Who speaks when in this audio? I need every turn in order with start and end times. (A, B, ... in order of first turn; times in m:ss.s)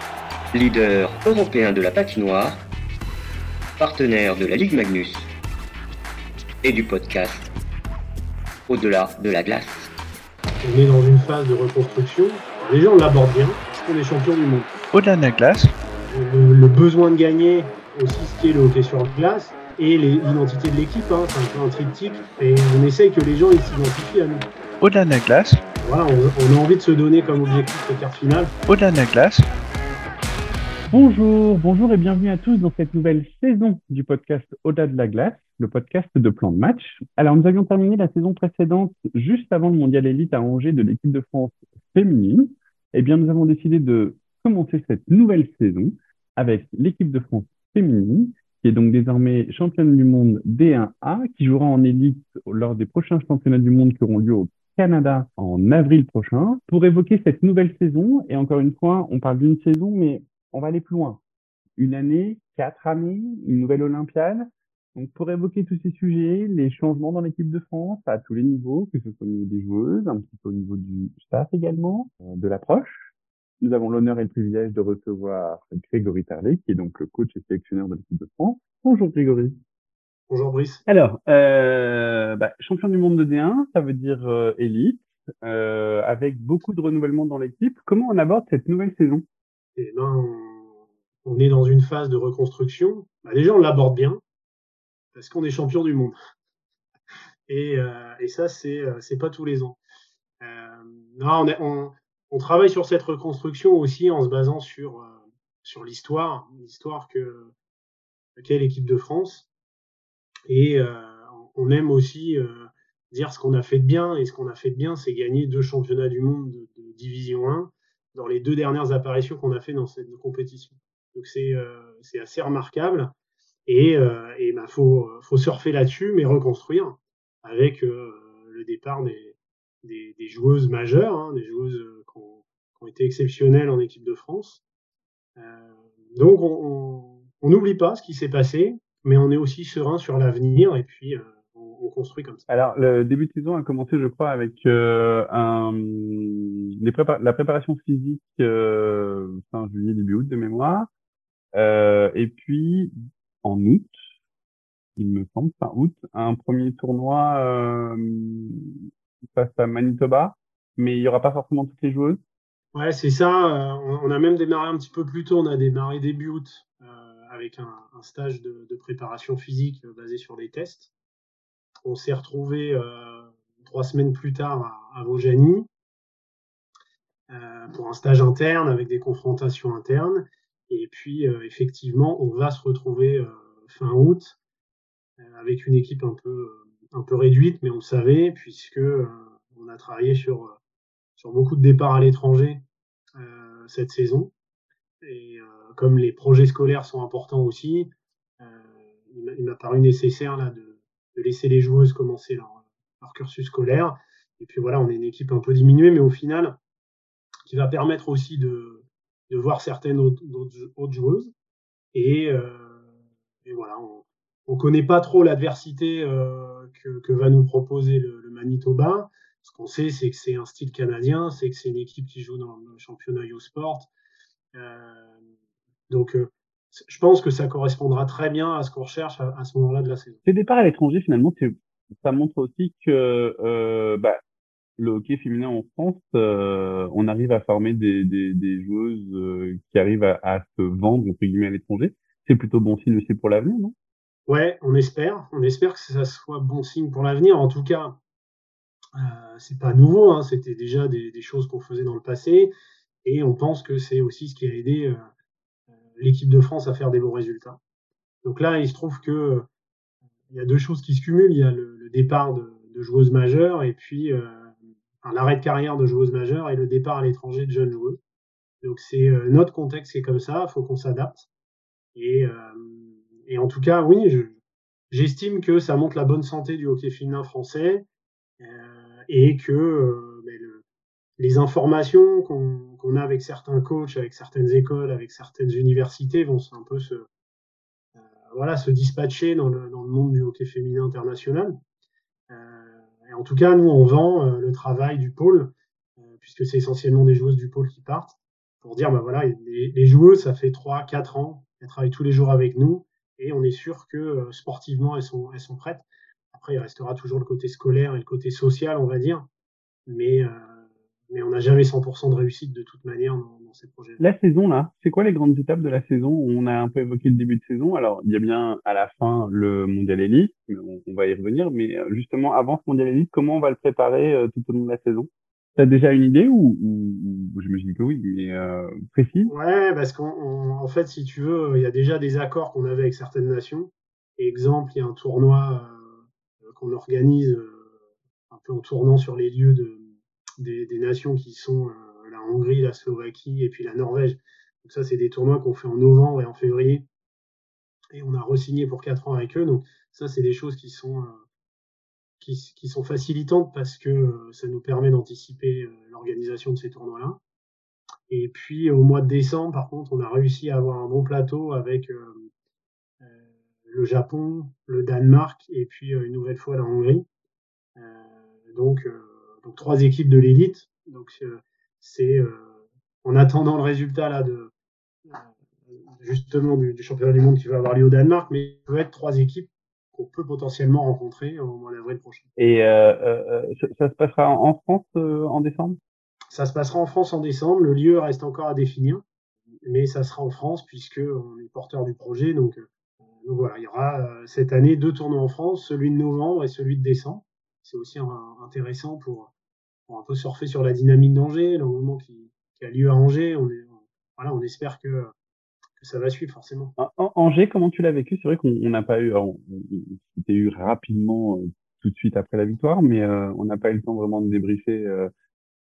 0:00.5-0:02.6 A
0:03.8-0:05.3 A
0:06.6-0:07.5 A
0:08.7-0:09.9 A
0:10.6-0:14.7 B
0:14.9-0:15.7 C
0:16.1-0:24.5 B
0:24.8-0:25.6 C
0:25.8-0:28.5 B
0:28.7-0:29.5 C
0:30.9-1:01.2 D
1:01.8-1:13.1 D
1:13.6-1:19.6 D
1:20.3-1:20.8 B
1:20.9-1:29.2 D
1:29.8-1:30.7 B
1:31.2-1:34.2 B
1:35.1-1:36.2 B
1:37.5-1:39.8 B
1:40.4-1:47.5 B
1:48.4-1:49.5 B
1:50.5-2:03.1 B
2:03.7-2:14.6 B
2:15.4-2:22.4 B
2:22.5-2:30.9 D
2:31.5-2:34.0 D
2:35.0-2:42.2 D
2:42.7-2:50.9 B
2:51.8-2:55.7 B
2:57.3-3:04.4 B
3:05.2-3:10.6 B
3:11.2-3:12.6 B
3:13.2-3:14.3 B
3:15.0-3:17.9 B
3:18.4-3:26.6 B
3:27.5-3:31.3 B
3:31.9-3:32.9 B
3:33.4-3:43.9 B
3:44.5-3:45.1 B
3:45.9-3:50.2 B
3:50.3-3:54.2 D
3:54.8-4:03.7 D
4:04.3-4:08.0 B
4:09.0-4:12.5 B
4:13.0-4:15.0 B
4:16.0-4:17.6 B
4:18.2-4:19.5 B
4:20.3-4:24.5 B
4:25.0-4:28.0 B
4:28.6-4:31.3 B
4:32.0-4:34.4 B
4:34.9-4:37.8 B
4:38.4-4:40.6 B
4:41.2-4:47.1 B
4:48.3-4:51.6 B
4:52.3-4:55.5 B
4:56.2-5:09.3 B
5:09.9-5:10.5 B
5:11.1-5:14.0 B
5:14.0-5:29.3 D
5:29.3-5:35.9 B
5:36.5-5:37.6 B
5:38.3-5:39.9 B
5:40.4-5:46.9 B
5:47.9-5:51.2 B
5:52.2-5:57.2 B
5:58.1-6:02.3 B
6:03.7-6:07.0 B
6:07.8-6:12.5 B
6:13.0-6:14.5 B
6:15.9-6:22.3 B
6:22.4-6:25.8 D
6:26.3-6:29.0 B
6:29.6-6:32.6 B
6:33.2-6:39.3 B
6:39.9-6:45.1 B
6:45.8-6:46.7 B
6:46.8-6:55.1 D